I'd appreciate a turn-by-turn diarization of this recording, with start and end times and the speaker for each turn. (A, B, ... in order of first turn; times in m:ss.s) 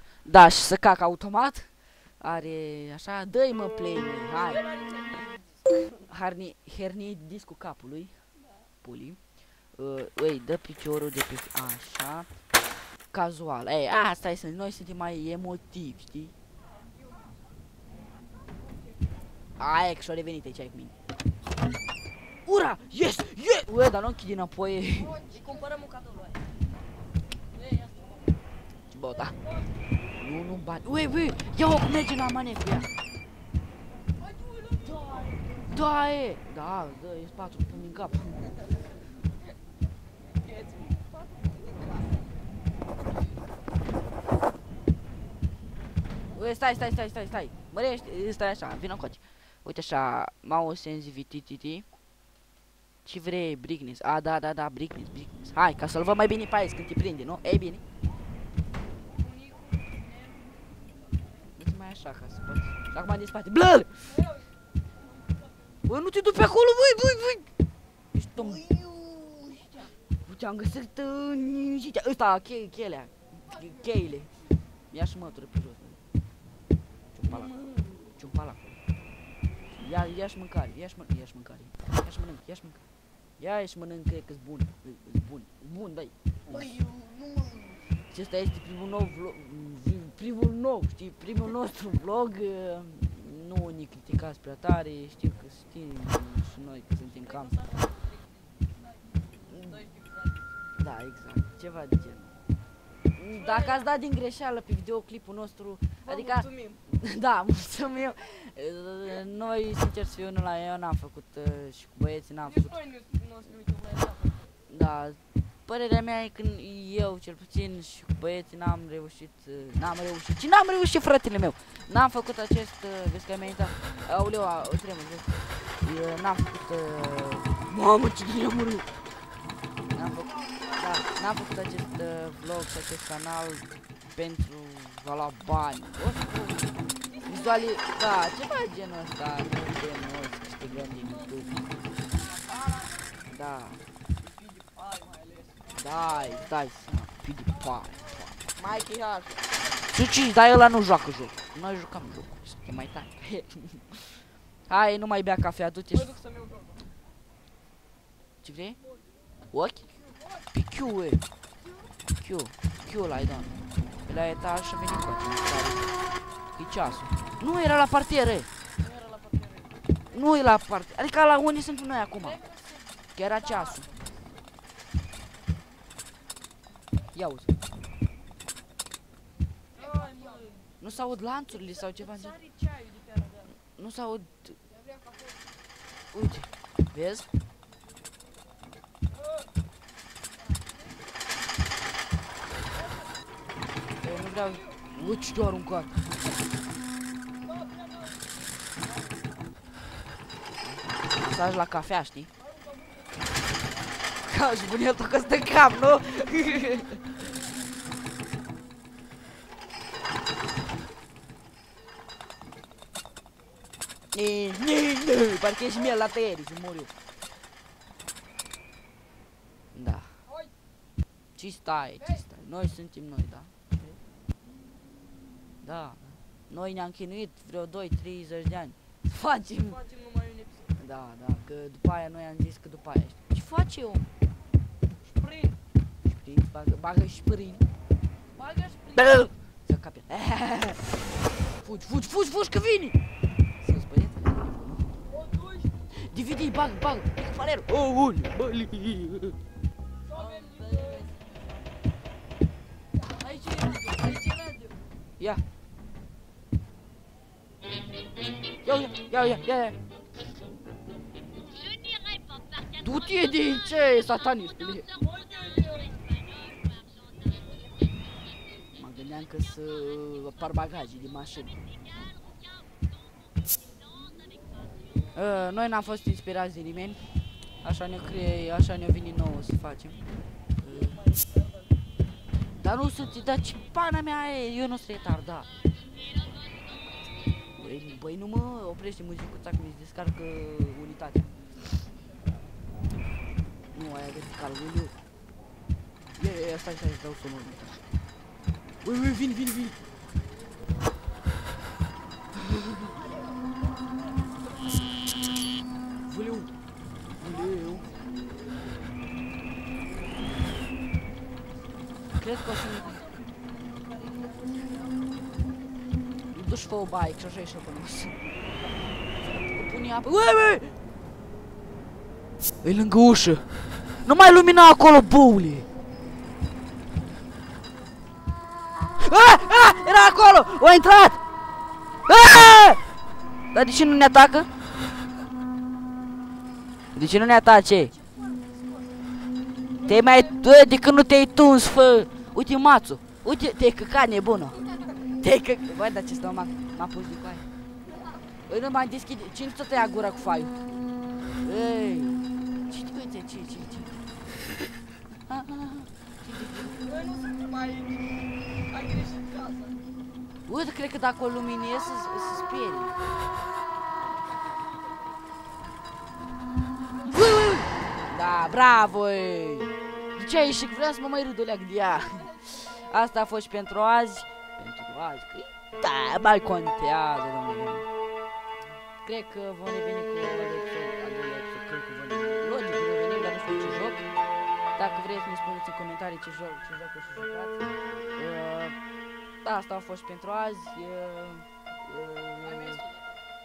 0:00.2-0:04.6 A
0:04.5-0:05.6 B
0:06.0-0:08.1 A
0:08.8-0:09.2 A
0:09.8-0:12.3 A
0:13.1-0:16.3 A
0:19.6-0:20.9 A
0:22.4-0:25.2 A
0:25.1-0:26.4 B
0:27.5-0:28.2 B
0:28.9-0:29.4 A
0:30.1-0:32.9 A
0:34.2-0:35.7 B
0:35.6-0:38.5 A
0:40.4-0:42.1 B
0:46.3-0:51.9 A
0:53.0-0:57.8 A
0:59.2-1:00.5 B
1:01.6-1:04.2 A
1:05.9-1:07.5 A
1:08.1-1:08.6 A
1:08.5-1:09.9 B
1:10.2-1:14.3 A
1:14.9-1:16.0 A
1:17.1-1:17.6 A
1:17.5-1:17.8 B
1:18.2-1:18.8 A
1:19.7-1:22.8 A
1:23.4-1:26.1 A
1:26.5-1:27.8 B
1:28.1-1:37.5 A
1:37.3-1:38.7 B
1:39.5-1:39.8 A
1:39.7-1:40.2 B
1:40.8-1:42.3 A
1:43.2-1:52.8 A
1:43.3-1:43.9 B
1:46.0-1:46.8 B
1:52.4-1:54.5 B
1:54.7-2:05.3 A
2:05.8-2:08.9 A
2:09.9-2:16.7 A
2:17.1-2:17.6 B
2:17.2-2:21.6 A
2:22.2-2:23.0 B
2:23.2-2:23.8 A
2:24.2-2:25.7 B
2:25.7-2:28.3 A
2:28.6-2:29.5 B
2:29.8-2:34.0 A
2:34.7-2:36.2 A
2:35.9-2:36.8 B
2:38.4-2:38.8 A
2:39.5-2:39.9 A
2:40.5-2:41.2 A
2:42.2-2:46.0 A
2:46.6-2:48.5 A
2:48.8-2:49.7 B
2:50.1-2:52.4 A
2:52.3-2:54.1 B
2:53.2-2:53.8 A
2:57.1-2:57.5 A
2:59.7-3:00.6 B
3:00.8-3:02.4 A
3:01.9-3:03.5 B
3:03.6-3:04.6 A
3:06.1-3:07.3 A
3:14.0-3:15.9 A
3:17.4-3:18.2 B
3:20.6-3:22.3 A
3:22.6-3:23.0 B
3:24.2-3:27.2 A
3:34.1-3:36.9 A
3:39.7-3:40.1 A
3:41.4-3:44.0 A
3:45.6-3:49.8 A
3:49.7-3:50.8 B
3:50.8-3:54.0 A
3:55.0-3:55.6 B
3:56.0-3:57.6 A
3:58.3-3:59.2 B
3:58.9-4:00.8 A
4:01.6-4:03.0 A
4:03.6-4:04.9 A
4:05.2-4:05.7 B
4:06.0-4:09.4 A
4:10.1-4:11.6 B
4:13.0-4:14.8 B
4:18.6-4:19.8 A
4:22.8-4:24.9 A
4:24.9-4:26.2 B
4:28.8-4:31.6 A
4:35.1-4:37.0 A
4:37.6-4:40.0 A
4:40.6-4:41.0 A
4:41.0-4:41.5 B
4:42.6-4:45.5 A
4:47.6-4:51.4 A
4:53.7-4:55.0 A
4:56.2-4:57.8 A
4:58.8-4:59.8 A
5:02.4-5:02.9 A
5:06.0-5:06.5 A
5:07.2-5:07.9 A
5:12.2-5:13.0 A
5:12.8-5:15.0 B
5:16.3-5:18.2 A
5:19.3-5:20.7 A
5:22.6-5:23.5 A
5:24.0-5:25.7 A
5:29.0-5:31.2 A
5:32.0-5:32.8 A
5:33.5-5:34.5 A
5:36.9-5:37.9 A
5:38.0-5:38.9 B
5:39.8-5:44.7 A
5:39.8-5:40.3 B
5:45.2-5:47.4 A
5:48.5-5:50.5 A
5:51.4-5:54.0 A
5:55.3-5:56.8 A
5:56.8-5:58.2 B
5:58.7-5:59.8 B
6:00.5-6:03.0 A
6:04.1-6:05.1 B
6:07.0-6:17.9 A
6:19.0-6:24.0 A
6:24.8-6:27.6 A
6:28.1-6:28.7 A
6:29.4-6:32.8 A
6:32.4-6:33.0 B